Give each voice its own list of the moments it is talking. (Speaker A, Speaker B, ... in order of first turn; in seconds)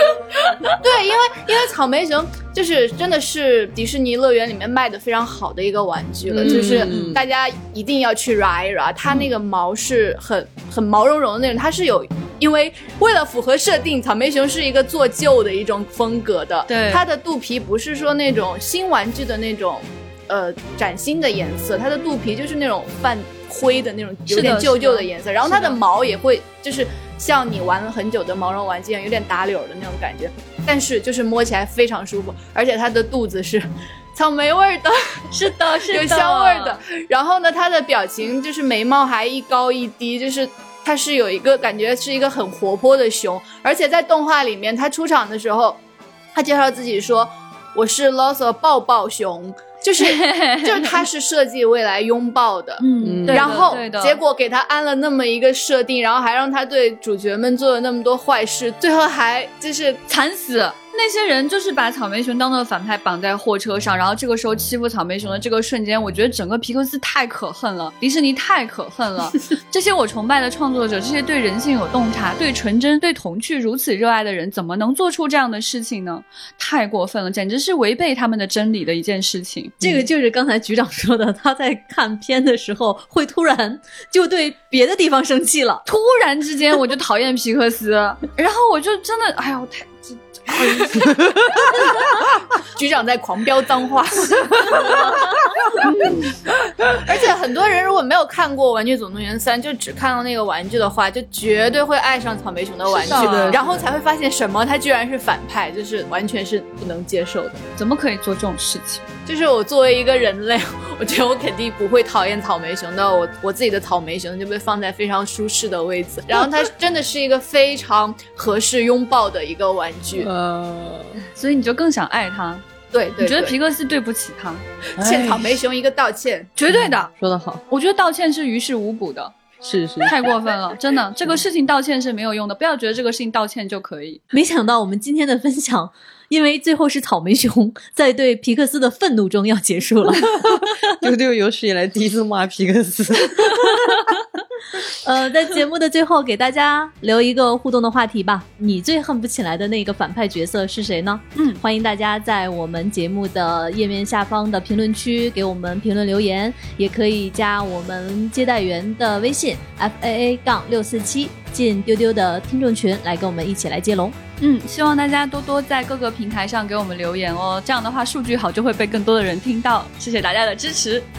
Speaker A: 0.8-45.8, 46.3-60.0, 92.8-95.3, 96.9-107.7, 109.3-120.3, 122.9-123.5, 125.0-126.5
Speaker B: 6.3-7.3, 53.0-53.7, 102.9-103.9, 120.1-121.2, 125.0-125.5, 126.7-127.6, 129.6-130.2, 140.9-143.8
Speaker C: 6.4-7.2, 16.7-17.0, 24.3-25.8, 35.3-36.8, 50.0-51.0, 52.8-54.2, 60.1-79.8, 85.9-91.2, 103.0-103.6, 107.8-109.0, 121.3-122.6, 123.2-124.6, 126.6-127.1, 127.7-129.3, 130.0-134.2, 151.4-151.6, 164.4-171.1
Speaker D: 79.8-85.8, 134.3-140.3, 144.9-164.2